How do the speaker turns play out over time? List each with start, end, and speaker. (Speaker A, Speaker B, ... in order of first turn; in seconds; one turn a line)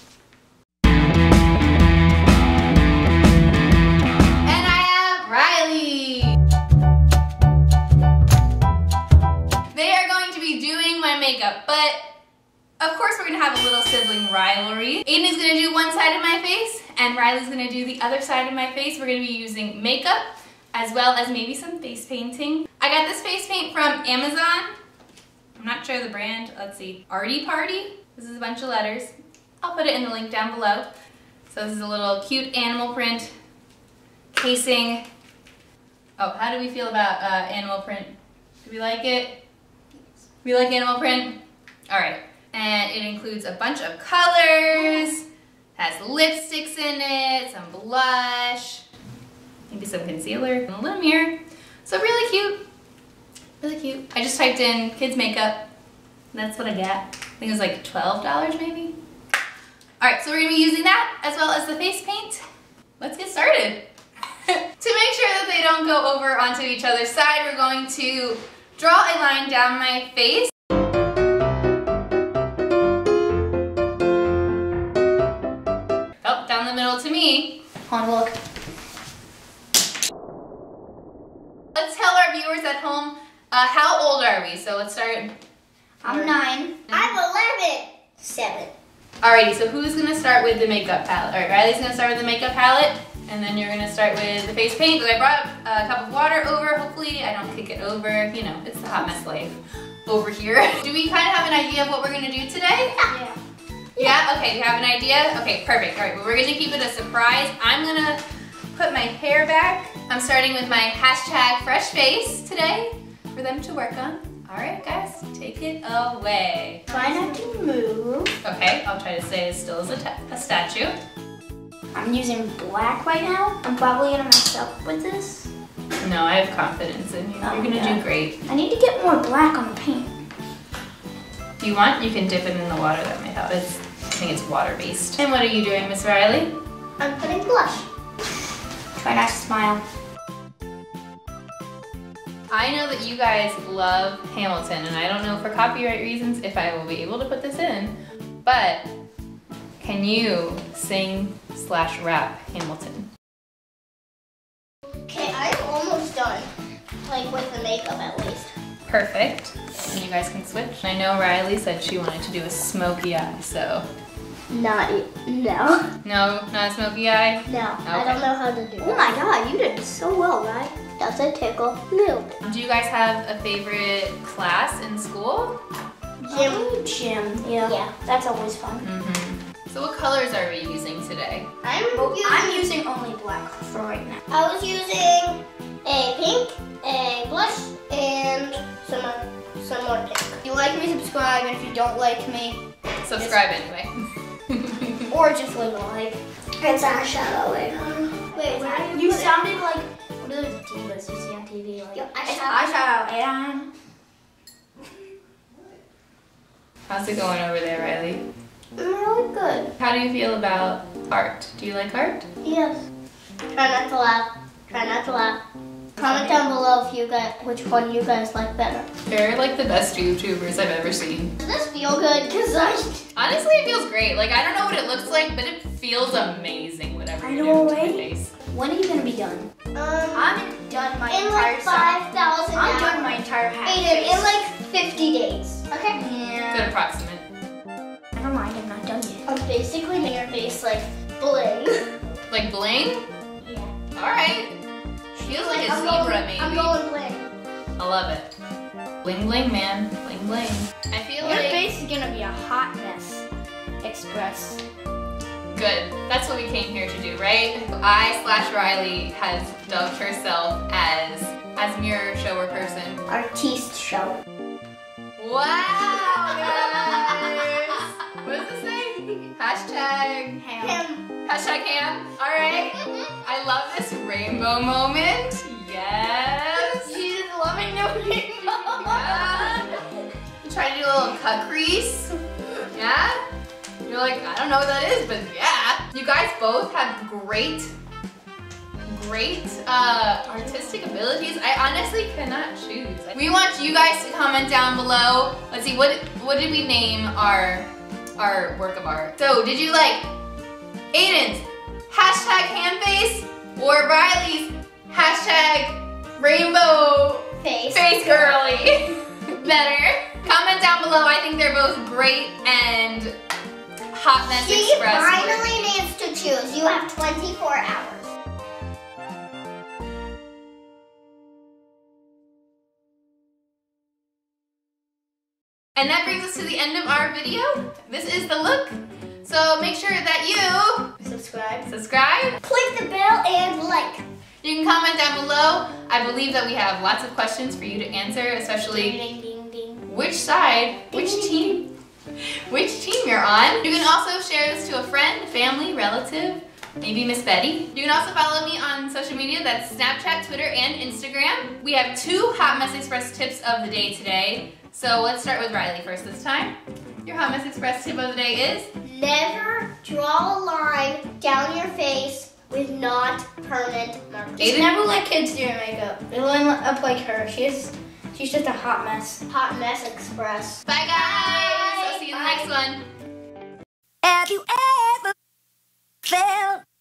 Speaker A: 4.4-6.4
Speaker A: 9.7-12.0
Speaker A: 12.8-24.7
Speaker A: 25.6-30.9
Speaker A: 31.5-33.3
Speaker A: 34.3-35.0
Speaker A: 36.2-39.4
Speaker A: 40.4-41.4
Speaker A: 41.9-45.2
Speaker A: 45.8-48.8
Speaker A: 49.7-52.6
Speaker A: 53.6-55.6
Speaker A: 56.3-58.9
Speaker A: 60.0-62.4
Speaker A: 63.0-63.8
Speaker A: 64.5-70.5
Speaker A: 76.2-77.6
Speaker B: 77.9-78.3
Speaker A: 81.7-85.3
Speaker B: 86.0-86.8
Speaker A: 86.0-86.4
Speaker A: 86.9-87.2
Speaker C: 86.9-88.7
Speaker A: 89.2-103.1
Speaker B: 103.1-103.4
Speaker A: 104.0-108.2
Speaker A: 108.7-116.8
Speaker B: 116.9-118.3
Speaker C: 116.9-117.4
Speaker A: 118.4-121.0
Speaker B: 121.9-125.5
Speaker A: 126.0-128.4
Speaker B: 127.4-130.2
Speaker A: 131.6-136.5
Speaker C: 137.0-137.9
Speaker B: 139.0-139.8
Speaker A: 142.5-148.8
Speaker A: 149.8-153.1
Speaker C: 155.1-156.5
Speaker C: 157.0-158.5
Speaker A: 158.9-163.8
Speaker C: 164.5-165.8
Speaker A: 166.0-168.2
Speaker C: 167.4-169.1
Speaker B: 168.8-170.7
Speaker C: 171.0-172.4
Speaker A: 172.4-175.6
Speaker B: 176.2-178.8
Speaker C: 176.3-176.7
Speaker C: 177.6-177.9
Speaker A: 178.8-181.5
Speaker C: 181.6-182.7
Speaker B: 181.9-184.2
Speaker C: 184.3-190.4
Speaker B: 190.4-192.6
Speaker A: 193.0-193.9
Speaker B: 193.1-193.4
Speaker A: 194.5-195.0
Speaker B: 195.1-196.2
Speaker C: 196.6-199.4
Speaker B: 198.5-203.7
Speaker C: 201.9-202.6
Speaker A: 206.9-208.2
Speaker C: 208.8-209.7
Speaker A: 209.8-212.2
Speaker C: 212.4-212.8
Speaker C: 213.5-215.4
Speaker C: 216.0-218.8
Speaker A: 216.0-216.3
Speaker A: 219.1-221.3
Speaker C: 221.4-223.0
Speaker A: 223.2-228.3
Speaker B: 227.2-229.5
Speaker C: 229.7-230.3
Speaker B: 230.1-231.9
Speaker C: 231.1-235.7
Speaker B: 232.5-234.3
Speaker B: 235.7-236.7
Speaker A: 236.5-237.2
Speaker B: 238.2-239.2
Speaker C: 239.2-241.8
Speaker A: 242.3-243.0
Speaker B: 243.4-243.7
Speaker A: 243.9-244.5
Speaker A: 245.2-246.7
Speaker C: 245.2-247.3
Speaker A: 247.8-248.3
Speaker A: 249.0-251.6
Speaker B: 251.2-253.2
Speaker B: 253.8-254.6
Speaker A: 255.5-263.0
Speaker C: 263.1-264.2
Speaker A: 265.2-270.4
Speaker B: 270.4-270.8
Speaker C: 270.6-271.0
Speaker A: 271.2-276.9
Speaker C: 276.6-279.8
Speaker B: 278.0-278.8
Speaker A: 278.8-279.8
Speaker A: 280.4-282.2
Speaker A: 282.7-283.2
Speaker A: 283.8-287.7
Speaker A: 288.9-300.0
Speaker A: 300.9-313.1
Speaker C: 307.4-308.7
Speaker A: 313.9-315.7
Speaker C: 314.2-318.1
Speaker A: 325.8-330.9
Speaker C: 331.0-331.7
Speaker A: 331.7-332.4
Speaker C: 332.4-334.0
Speaker A: 334.4-339.0
Speaker B: 338.7-339.8
Speaker A: 339.9-341.7
Speaker B: 340.9-341.5
Speaker C: 340.9-341.4
Speaker A: 342.5-356.5
Speaker A: 357.0-358.7
Speaker C: 358.8-364.6
Speaker A: 364.4-364.7
Speaker B: 364.4-369.2
Speaker C: 369.3-372.5
Speaker A: 370.7-372.8
Speaker B: 374.0-375.1
Speaker B: 376.1-376.6